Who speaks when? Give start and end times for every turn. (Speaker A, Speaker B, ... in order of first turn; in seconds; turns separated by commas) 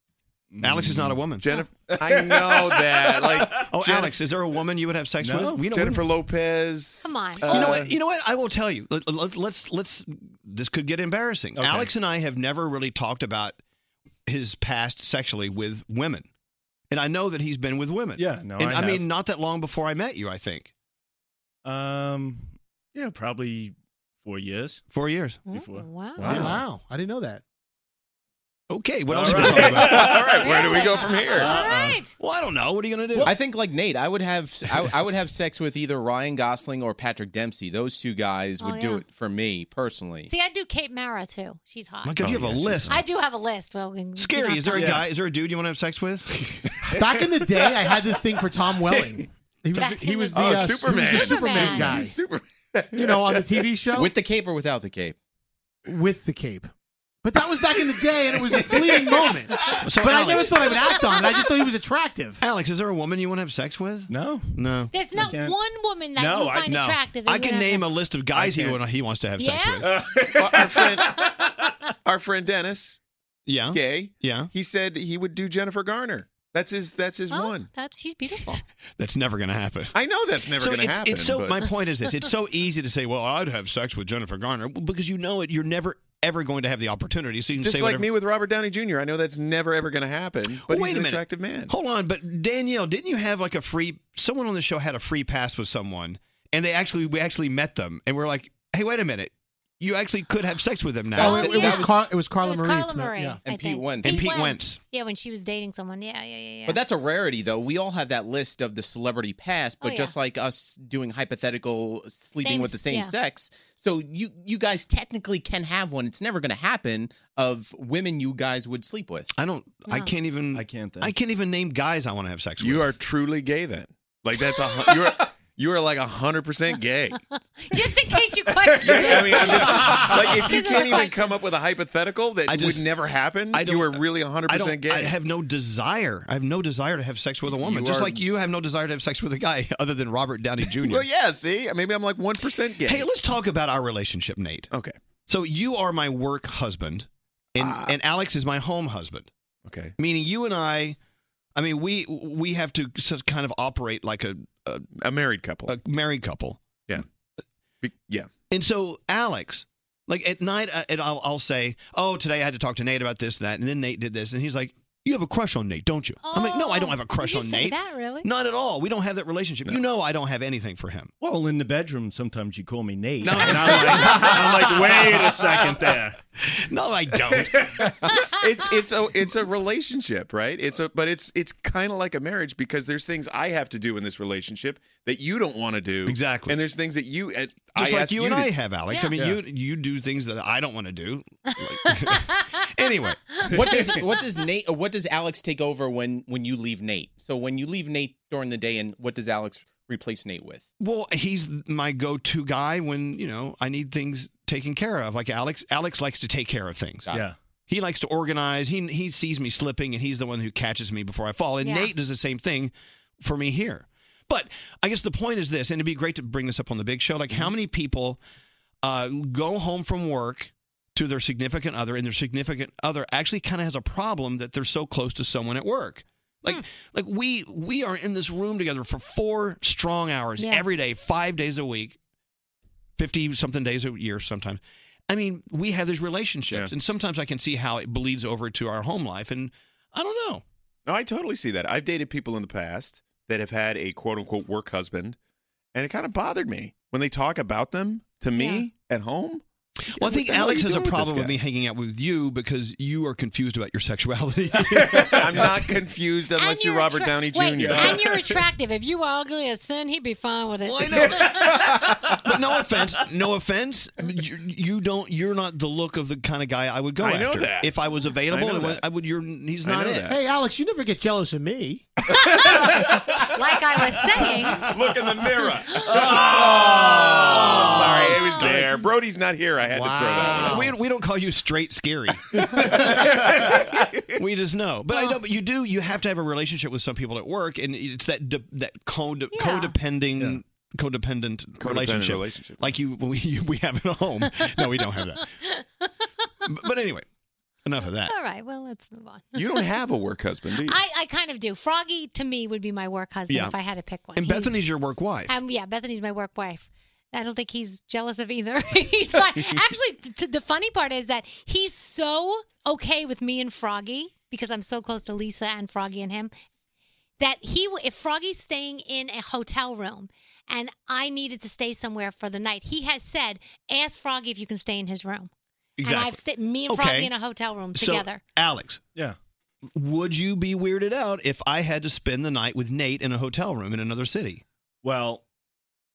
Speaker A: 0.5-1.2, Speaker B: 0.6-1.5, Speaker C: 1.4-4.2, Speaker A: 1.9-3.5, Speaker B: 3.6-6.1, Speaker A: 5.2-5.6, Speaker C: 5.7-7.9, Speaker D: 7.0-7.7, Speaker B: 7.4-13.6, Speaker A: 11.6-11.9, Speaker B: 14.3-16.3, Speaker B: 16.9-20.7, Speaker A: 18.2-19.1, Speaker A: 21.6-24.8, Speaker B: 24.9-25.4, Speaker D: 25.5-26.3, Speaker A: 25.5-26.5, Speaker E: 26.2-27.4, Speaker C: 26.2-26.5, Speaker B: 26.2-26.6, Speaker B: 28.7-30.2, Speaker A: 29.1-30.6, Speaker C: 29.4-31.5, Speaker D: 29.5-32.1, Speaker A: 31.3-32.0, Speaker B: 32.2-33.4, Speaker F: 33.2-40.3, Speaker D: 38.6-39.0, Speaker D: 40.3-42.2, Speaker B: 42.0-43.0, Speaker C: 42.2-43.0, Speaker D: 42.9-45.1, Speaker B: 44.1-46.9, Speaker F: 44.7-45.0, Speaker E: 46.8-52.2, Speaker D: 49.7-52.0, Speaker C: 50.3-53.6, Speaker E: 52.9-54.1, Speaker F: 54.0-55.1, Speaker E: 55.9-56.7, Speaker E: 57.2-62.4, Speaker B: 59.8-60.7, Speaker B: 62.4-64.9, Speaker A: 64.1-65.6, Speaker D: 64.9-68.0, Speaker A: 66.2-66.7, Speaker B: 66.7-70.7, Speaker A: 68.3-68.8, Speaker D: 69.4-70.0, Speaker A: 69.8-71.7, Speaker C: 70.3-71.0, Speaker D: 70.8-71.2, Speaker C: 72.0-73.0, Speaker B: 73.5-74.5, Speaker C: 73.7-77.7, Speaker D: 77.3-78.6, Speaker B: 79.0-80.0, Speaker C: 79.9-81.7, Speaker B: 80.5-88.1, Speaker C: 87.6-91.7, Speaker B: 90.6-101.6, Speaker E: 101.1-103.4, Speaker D: 101.2-106.8, Speaker F: 101.2-101.9, Speaker F: 103.5-104.2, Speaker B: 104.0-104.8, Speaker F: 106.7-119.3, Speaker D: 109.8-110.2, Speaker D: 112.4-113.1, Speaker B: 119.3-123.0, Speaker D: 119.9-120.1, Speaker A: 120.5-121.1, Speaker C: 122.6-127.2, Speaker D: 124.4-125.0, Speaker D: 127.3-131.4, Speaker A: 128.6-130.0, Speaker C: 128.8-135.1, Speaker B: 132.4-132.9, Speaker B: 133.5-141.1, Speaker C: 137.5-138.2, Speaker C: 140.8-143.1, Speaker B: 142.8-144.7, Speaker B: 145.3-149.3, Speaker C: 147.6-147.9, Speaker C: 149.6-149.9, Speaker B: 150.0-151.0, Speaker B: 151.5-154.9, Speaker C: 154.9-155.8, Speaker B: 155.7-156.6, Speaker C: 157.8-158.3, Speaker B: 158.5-171.1, Speaker D: 166.2-168.3, Speaker A: 171.2-176.2, Speaker B: 173.2-175.0, Speaker B: 176.4-177.8, Speaker A: 177.5-177.8, Speaker C: 178.1-188.5, Speaker B: 186.1-186.6, Speaker B: 187.8-193.2, Speaker D: 188.9-189.1, Speaker A: 189.1-189.4, Speaker D: 192.1-192.4, Speaker F: 193.5-200.7, Speaker A: 193.7-194.0, Speaker B: 200.8-207.1, Speaker B: 207.7-218.2, Speaker D: 211.6-211.9, Speaker B: 218.8-232.0, Speaker D: 230.4-230.7, Speaker B: 233.0-240.4, Speaker C: 240.8-245.2, Speaker C: 245.7-249.4, Speaker D: 248.3-248.7, Speaker B: 249.9-255.5, Speaker C: 249.9-251.3, Speaker A: 254.7-255.1, Speaker C: 255.0-258.0, Speaker D: 256.4-261.7, Speaker A: 257.5-258.4, Speaker B: 260.6-261.5, Speaker B: 262.1-270.1, Speaker C: 267.0-267.7, Speaker C: 268.3-268.8, Speaker A: 268.3-268.7, Speaker C: 269.6-270.2, Speaker E: 270.1-271.9, Speaker D: 272.2-274.6, Speaker B: 274.5-275.4, Speaker C: 274.6-280.7, Speaker B: 277.3-278.4, Speaker E: 277.5-278.7, Speaker D: 278.0-278.8, Speaker E: 279.6-280.8, Speaker B: 280.3-283.4, Speaker A: 282.6-283.8, Speaker B: 284.1-295.2, Speaker D: 289.3-289.8, Speaker C: 291.6-292.8, Speaker D: 294.2-296.1, Speaker B: 296.4-297.1, Speaker B: 297.6-298.1, Speaker D: 297.8-299.8, Speaker C: 299.3-300.8, Speaker D: 300.5-304.6, Speaker B: 303.3-303.6, Speaker B: 304.1-305.3, Speaker D: 305.2-316.3, Speaker D: 317.2-325.3, Speaker B: 325.8-327.1, Speaker D: 325.8-328.2, Speaker B: 327.7-328.8, Speaker B: 329.7-334.4, Speaker A: 334.8-335.2